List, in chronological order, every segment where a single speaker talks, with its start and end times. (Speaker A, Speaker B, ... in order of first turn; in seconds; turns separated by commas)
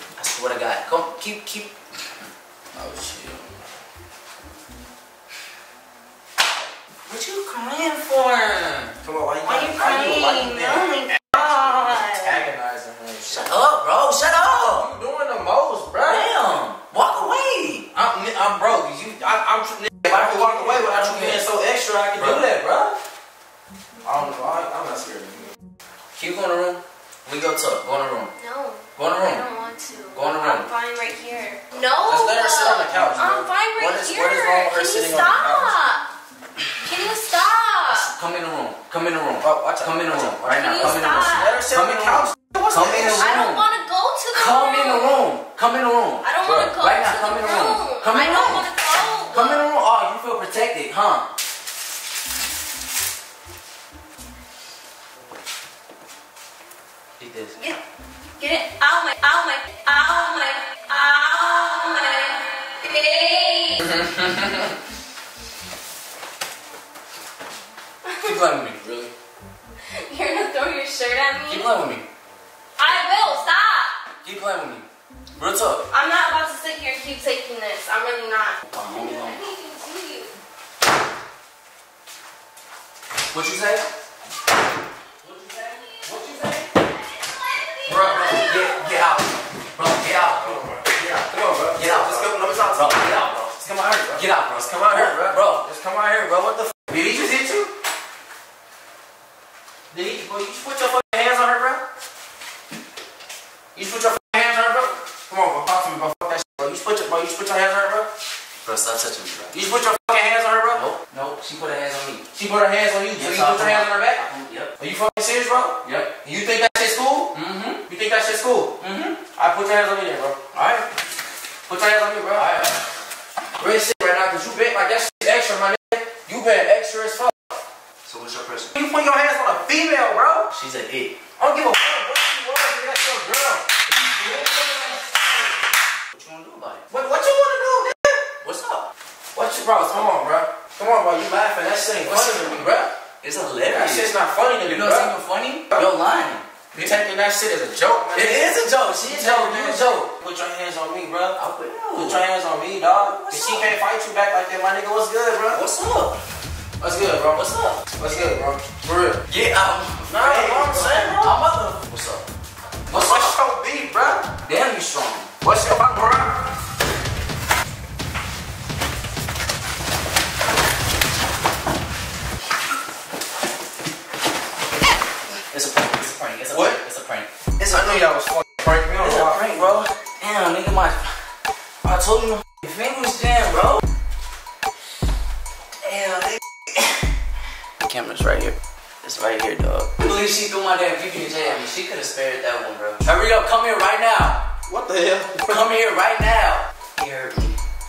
Speaker A: 0.1-1.7, Speaker B: 2.7-3.7, Speaker A: 7.1-12.4, Speaker B: 9.0-13.5, Speaker A: 13.3-14.9, Speaker B: 14.7-16.3, Speaker A: 16.0-17.9, Speaker B: 17.9-22.9, Speaker A: 20.1-21.4, Speaker A: 22.1-22.4, Speaker B: 24.0-25.5, Speaker A: 26.1-28.3, Speaker C: 28.4-36.0, Speaker A: 28.9-29.4, Speaker A: 30.1-30.7, Speaker B: 32.0-35.7, Speaker C: 36.8-38.1, Speaker A: 37.9-43.6, Speaker B: 39.4-43.4, Speaker C: 40.5-41.6, Speaker C: 43.0-45.2, Speaker A: 44.3-48.7, Speaker C: 46.2-49.7, Speaker A: 49.3-51.3, Speaker A: 57.2-57.5, Speaker C: 57.5-57.8, Speaker C: 58.4-63.9, Speaker A: 63.9-64.5, Speaker C: 68.0-68.4, Speaker A: 68.2-68.8, Speaker B: 68.8-69.1, Speaker C: 69.9-71.7, Speaker A: 71.5-72.1, Speaker C: 72.8-74.0, Speaker A: 74.2-75.8, Speaker C: 75.9-80.3, Speaker A: 78.6-79.4, Speaker A: 83.3-83.8, Speaker B: 85.2-86.7, Speaker C: 85.5-89.0, Speaker B: 87.9-88.5, Speaker A: 87.9-90.6, Speaker B: 90.1-97.7, Speaker A: 91.7-93.4, Speaker A: 94.1-95.7, Speaker B: 99.9-101.8, Speaker B: 103.7-108.1, Speaker A: 108.6-109.5, Speaker B: 109.5-110.8, Speaker A: 110.7-112.2, Speaker B: 112.3-114.2, Speaker A: 113.2-114.7, Speaker B: 114.8-117.3, Speaker A: 115.8-116.1, Speaker A: 117.3-117.8, Speaker B: 117.9-118.7, Speaker A: 118.8-119.2, Speaker B: 119.3-120.4, Speaker A: 120.5-120.9, Speaker B: 121.7-122.5, Speaker A: 122.3-122.8, Speaker B: 123.6-127.5, Speaker A: 128.0-128.7, Speaker B: 128.7-130.5, Speaker A: 130.5-131.2, Speaker B: 131.4-135.4, Speaker A: 136.1-136.9, Speaker B: 136.9-138.0, Speaker A: 138.4-138.9, Speaker B: 139.3-142.9, Speaker A: 142.0-142.7, Speaker A: 143.2-144.1, Speaker B: 143.7-145.1, Speaker A: 144.6-147.0, Speaker B: 146.7-151.4, Speaker A: 148.1-150.1, Speaker A: 151.3-152.2, Speaker B: 151.9-155.6, Speaker A: 152.9-153.7, Speaker A: 155.5-156.2, Speaker B: 156.8-159.2, Speaker A: 157.3-157.8, Speaker A: 159.3-162.2, Speaker B: 160.1-161.3, Speaker A: 162.9-163.3, Speaker B: 162.9-164.3, Speaker A: 164.4-165.3, Speaker B: 165.4-166.4, Speaker A: 175.5-178.1, Speaker B: 176.5-176.8, Speaker B: 177.7-179.8, Speaker A: 179.0-181.2, Speaker A: 181.8-183.8, Speaker A: 185.8-187.1, Speaker A: 187.8-194.4, Speaker B: 194.7-195.5, Speaker A: 195.5-197.6